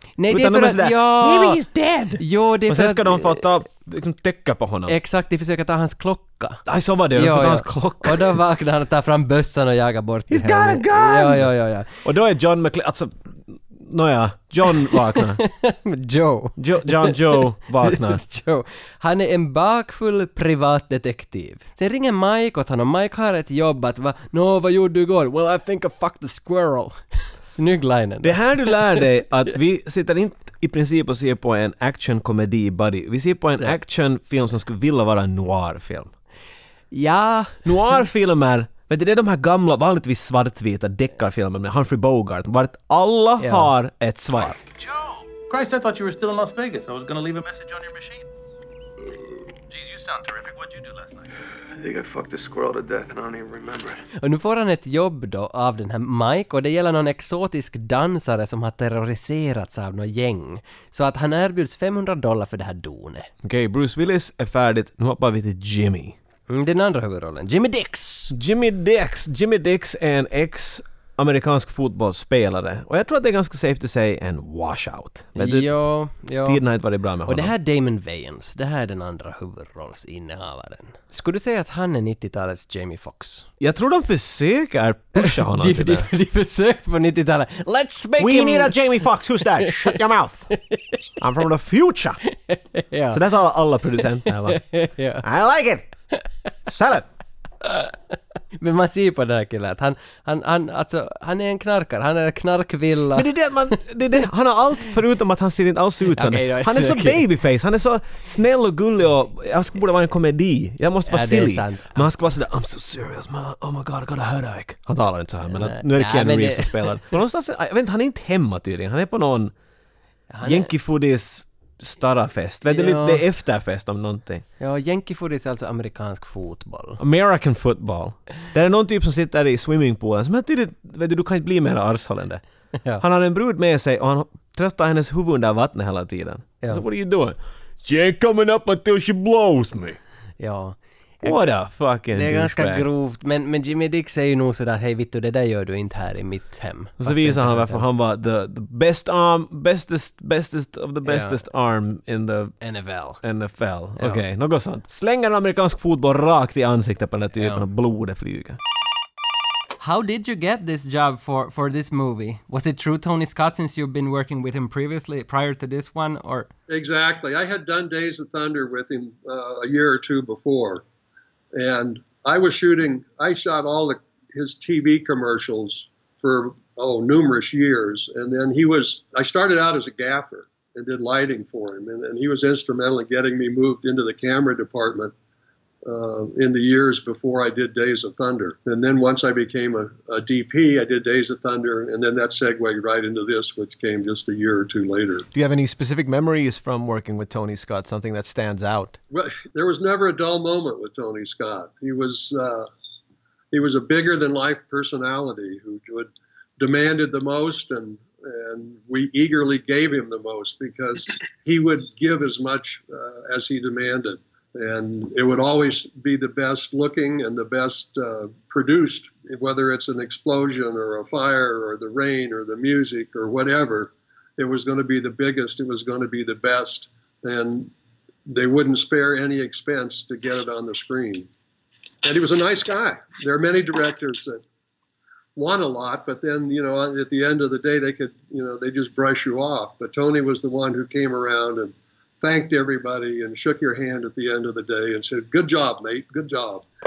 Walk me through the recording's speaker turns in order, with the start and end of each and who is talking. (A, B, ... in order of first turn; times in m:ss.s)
0:00.2-0:01.6 A
0:00.3-0:04.9 B
0:02.2-0:03.4 A
0:04.9-0:11.9 A
0:06.6-0:08.4 B
0:10.3-0:11.5 B
0:12.0-0:15.4 B
0:14.9-0:29.1 A
0:16.6-0:18.2 B
0:28.2-0:36.1 B
0:36.9-0:38.0 A
0:37.6-0:44.6 B
0:43.4-0:43.7 A
0:44.7-0:48.3 C
0:49.7-0:51.3 C
0:51.8-0:54.0 D
0:54.2-1:03.3 A
1:03.4-1:06.2 B
1:06.5-1:08.3 A
1:08.3-1:15.8 B
1:15.4-1:16.6 A
1:16.4-1:17.5 B
1:17.2-1:23.5 A
1:23.6-1:26.1 B
1:25.1-1:28.8 A
1:28.2-1:30.5 B
1:29.6-1:30.0 A
1:30.5-1:31.0 A
1:31.2-1:32.2 B
1:32.3-1:33.2 A
1:33.1-1:34.6 B
1:34.0-1:35.2 A
1:35.2-1:35.8 B
1:36.7-1:37.0 B
1:37.6-1:38.0 A
1:38.6-1:43.7 A
1:43.1-1:59.5 B
1:46.0-1:47.2 A
1:51.0-1:52.1 A
1:55.6-1:57.2 A
2:00.3-2:00.7 A
2:00.4-2:04.4 B
2:02.6-2:03.2 A
2:04.6-2:07.0 A
2:07.0-2:12.4 B
2:12.8-2:13.0 A
2:13.0-2:20.0 B
2:20.4-2:21.5 A
2:21.2-2:22.8 B
2:22.1-2:27.8 A
2:27.0-2:32.5 B
2:31.0-2:31.4 A
2:32.6-2:33.2 A
2:33.2-2:38.6 B
2:37.4-2:37.6 A
2:39.8-2:46.5 A
2:46.7-2:50.8 E
2:51.5-3:05.1 E
3:05.8-3:15.2 E
3:15.3-3:19.0 B
3:19.1-3:22.7 E
3:23.5-3:47.7 E
3:48.3-3:51.3 E
3:52.0-3:54.4 E
3:55.4-4:06.6 E